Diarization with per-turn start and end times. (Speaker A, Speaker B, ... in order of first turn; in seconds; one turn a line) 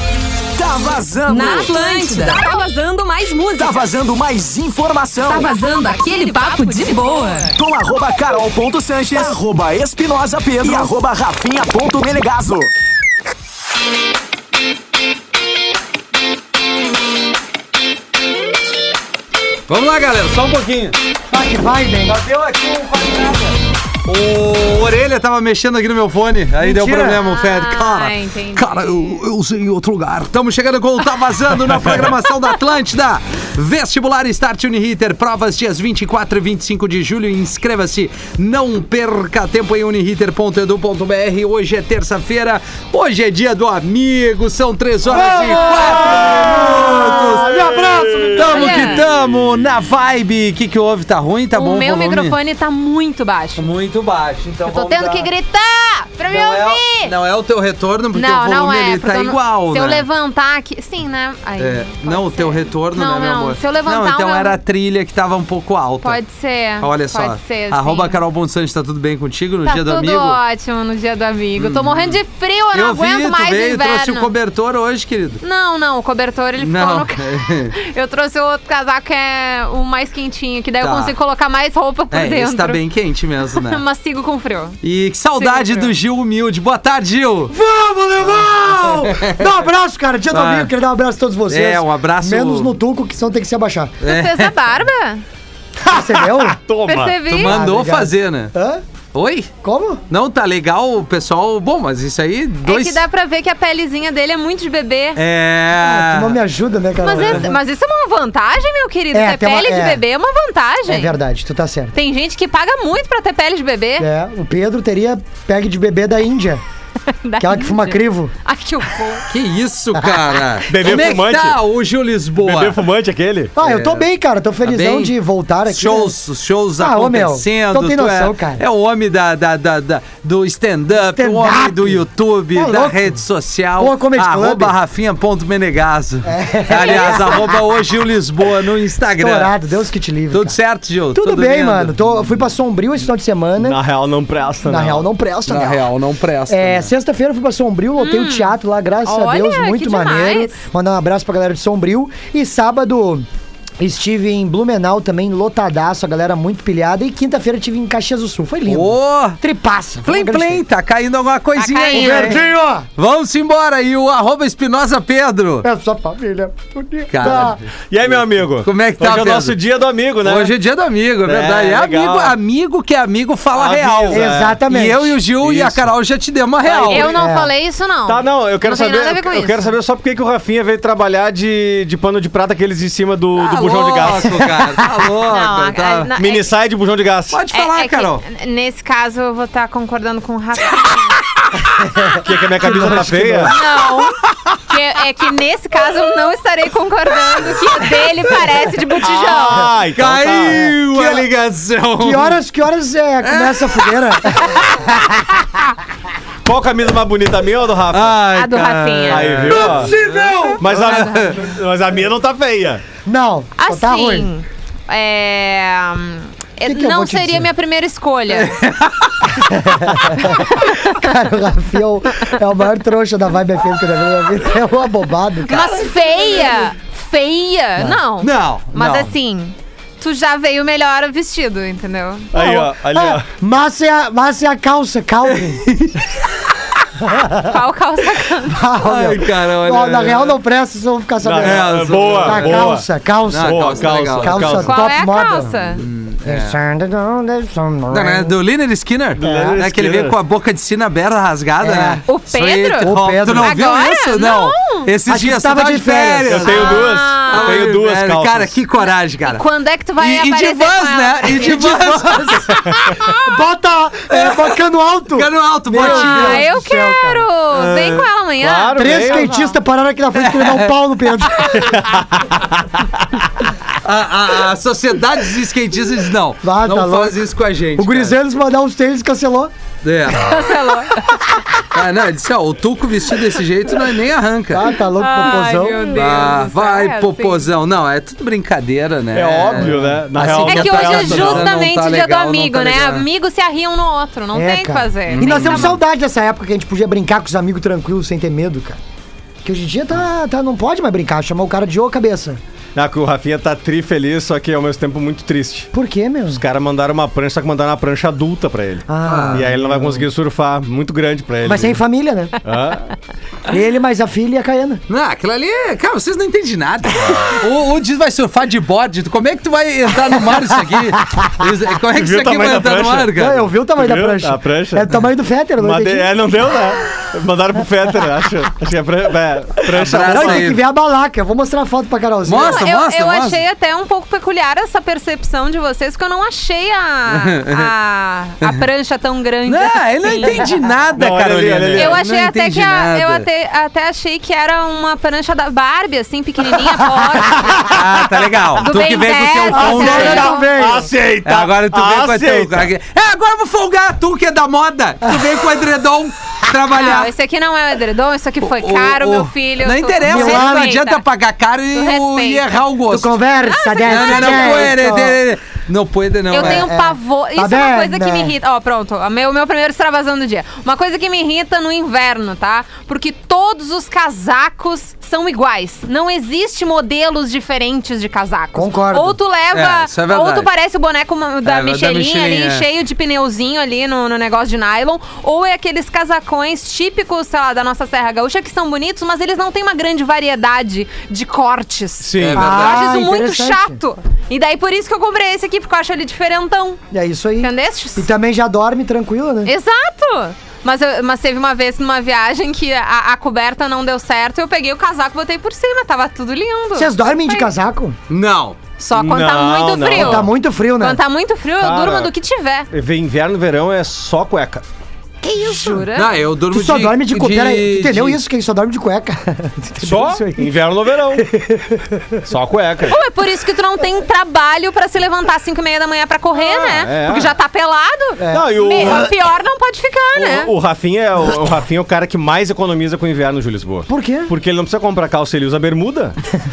Speaker A: 0.5-2.3
Speaker B: 1.3-3.9
Speaker A: 3.5-5.5
Speaker B: 5.2-7.5
Speaker A: 7.5-12.7
Speaker C: 19.7-20.9
Speaker D: 21.3-22.2
Speaker C: 22.1-23.5
Speaker C: 24.1-47.6
Speaker D: 26.6-27.2
Speaker B: 27.2-29.2
Speaker D: 45.0-49.0
Speaker B: 45.5-45.9
Speaker E: 46.0-48.5
Speaker C: 48.3-52.4
Speaker B: 48.5-49.0
Speaker E: 49.1-49.6
Speaker B: 51.5-53.7
Speaker C: 53.6-55.3
Speaker B: 54.6-57.1
Speaker C: 56.3-60.0
Speaker B: 58.1-64.6
Speaker C: 61.6-66.2
Speaker B: 66.0-68.2
Speaker C: 66.8-70.4
Speaker B: 69.7-74.3
Speaker C: 71.6-72.2
Speaker C: 72.7-75.4
Speaker B: 75.4-82.8
Speaker C: 76.6-77.7
Speaker C: 80.8-81.1
Speaker C: 82.1-83.8
Speaker B: 83.5-84.8
Speaker C: 84.8-87.5
Speaker B: 85.4-85.9
Speaker D: 87.5-93.9
Speaker C: 88.9-89.5
Speaker C: 90.3-90.7
Speaker C: 91.5-92.8
Speaker C: 94.0-94.5
Speaker B: 94.0-95.2
Speaker E: 95.8-97.2
Speaker D: 95.9-96.6
Speaker B: 96.8-97.5
Speaker C: 97.3-98.5
Speaker D: 97.4-98.8
Speaker C: 99.1-99.5
Speaker D: 99.6-100.0
Speaker C: 100.1-103.0
Speaker B: 102.6-105.2
Speaker C: 105.2-106.4
Speaker D: 105.8-107.6
Speaker B: 107.0-111.2
Speaker D: 109.1-110.0
Speaker D: 110.8-111.9
Speaker B: 111.9-114.1
Speaker D: 114.0-116.6
Speaker B: 117.1-119.3
Speaker D: 117.4-118.3
Speaker C: 119.3-122.8
Speaker D: 119.9-120.2
Speaker E: 120.7-121.6
Speaker D: 120.8-121.0
Speaker E: 122.4-123.5
Speaker D: 123.5-126.1
Speaker C: 123.6-124.0
Speaker C: 124.6-125.1
Speaker C: 125.7-139.5
Speaker D: 126.8-128.6
Speaker D: 130.9-133.2
Speaker D: 133.8-134.7
Speaker D: 136.2-137.6
Speaker D: 139.2-140.6
Speaker C: 140.3-142.3
Speaker D: 141.1-143.8
Speaker E: 143.6-145.1
Speaker D: 144.6-145.9
Speaker C: 145.5-146.9
Speaker D: 146.5-153.2
Speaker B: 148.0-150.6
Speaker D: 153.8-160.6
Speaker C: 158.7-159.4
Speaker C: 160.0-162.4
Speaker B: 161.6-162.4
Speaker D: 161.9-162.9
Speaker C: 163.0-165.7
Speaker D: 165.6-167.6
Speaker C: 167.1-167.6
Speaker E: 167.9-170.5
Speaker C: 168.6-169.6
Speaker C: 170.2-177.1
Speaker E: 171.2-172.3
Speaker E: 173.5-174.6
Speaker D: 174.1-175.2
Speaker E: 175.4-175.8
Speaker E: 176.6-177.2
Speaker B: 176.9-179.8
Speaker D: 176.9-177.5
Speaker E: 178.1-184.6
Speaker C: 183.4-186.1
Speaker B: 185.3-186.5
Speaker E: 186.2-187.4
Speaker C: 187.3-188.2
Speaker B: 187.5-191.2
Speaker C: 191.2-194.6
Speaker D: 191.8-193.6
Speaker E: 192.2-193.5
Speaker B: 193.5-194.2
Speaker B: 194.7-199.7
Speaker E: 199.0-201.2
Speaker C: 199.9-202.3
Speaker D: 202.0-205.2
Speaker C: 203.2-205.6
Speaker E: 206.4-208.2
Speaker C: 207.9-211.4
Speaker B: 208.3-209.4
Speaker E: 209.1-209.9
Speaker D: 209.7-211.0
Speaker E: 210.6-212.8
Speaker D: 213.0-214.3
Speaker B: 213.6-218.5
Speaker D: 216.6-217.5
Speaker C: 218.3-220.3
Speaker D: 219.4-225.5
Speaker B: 220.4-221.0
Speaker B: 225.5-232.6
Speaker C: 225.5-226.5
Speaker C: 228.2-229.1
Speaker E: 232.3-233.3
Speaker D: 232.4-235.6
Speaker C: 235.3-236.4
Speaker B: 237.4-238.6
Speaker D: 238.5-245.5
Speaker C: 238.8-240.4
Speaker E: 241.2-244.8
Speaker C: 241.4-244.7
Speaker B: 244.7-245.8
Speaker C: 245.8-246.6
Speaker D: 246.2-248.3
Speaker C: 247.9-259.4
Speaker E: 249.2-250.1
Speaker D: 249.2-249.6
Speaker D: 251.6-252.0
Speaker B: 252.1-254.9
Speaker D: 252.8-253.6
Speaker D: 255.1-256.8
Speaker E: 256.3-258.5
Speaker B: 256.5-257.7
Speaker B: 259.3-262.4
Speaker C: 260.0-263.0
Speaker D: 261.4-267.2
Speaker B: 262.9-263.2
Speaker C: 264.1-264.5
Speaker C: 265.1-266.4
Speaker B: 265.8-269.5
Speaker E: 268.4-269.3
Speaker D: 268.7-271.8
Speaker C: 270.1-270.7
Speaker E: 271.7-272.7
Speaker C: 273.8-278.1
Speaker D: 276.4-277.2
Speaker D: 277.8-279.5
Speaker C: 279.8-280.5
Speaker B: 280.2-281.0
Speaker C: 281.6-293.0
Speaker D: 284.5-285.9
Speaker B: 285.0-287.4
Speaker E: 289.1-291.5
Speaker B: 290.4-295.8
Speaker D: 294.3-298.8
Speaker C: 295.1-295.8
Speaker D: 299.4-302.4
Speaker E: 302.7-305.7
Speaker D: 305.7-306.4
Speaker E: 306.3-311.8
Speaker D: 308.9-310.1
Speaker C: 309.0-309.5
Speaker D: 311.4-312.4
Speaker E: 312.4-312.9
Speaker D: 313.5-314.8
Speaker C: 314.9-323.4
Speaker D: 320.7-321.2
Speaker E: 321.9-324.9
Speaker D: 323.1-326.1
Speaker E: 325.6-330.5
Speaker C: 329.7-330.6
Speaker D: 329.9-332.6
Speaker C: 332.2-333.4
Speaker B: 332.3-340.5
Speaker C: 337.1-337.7
Speaker C: 339.4-343.3
Speaker E: 340.9-342.0
Speaker B: 341.7-347.7
Speaker D: 347.2-347.6
Speaker C: 347.7-350.3
Speaker B: 348.6-350.5
Speaker D: 349.5-350.9
Speaker E: 349.9-352.7
Speaker C: 351.2-357.1
Speaker B: 356.7-361.0
Speaker C: 358.4-363.2
Speaker D: 360.0-360.7
Speaker B: 361.7-362.5
Speaker D: 362.9-365.2
Speaker B: 363.4-364.8
Speaker C: 363.9-366.7
Speaker B: 366.3-396.8
Speaker D: 366.3-368.3
Speaker D: 378.5-379.2
Speaker C: 379.5-380.5
Speaker C: 381.4-382.6
Speaker E: 392.0-392.4
Speaker C: 392.2-392.9
Speaker D: 392.3-393.8
Speaker D: 396.9-399.5
Speaker B: 397.4-398.1
Speaker B: 399.4-407.5
Speaker D: 406.7-407.9
Speaker C: 408.1-408.6
Speaker B: 408.8-412.7
Speaker E: 408.9-410.3
Speaker D: 409.9-411.0
Speaker E: 411.6-412.1
Speaker E: 412.7-414.6
Speaker D: 415.2-415.9
Speaker B: 415.4-416.1
Speaker C: 415.9-418.2
Speaker D: 416.5-420.6
Speaker E: 419.8-421.3
Speaker D: 421.1-422.2
Speaker E: 422.2-423.0
Speaker B: 422.9-430.5
Speaker E: 426.3-427.3
Speaker D: 428.2-429.1
Speaker E: 428.3-429.1
Speaker E: 430.2-436.2
Speaker D: 433.9-434.3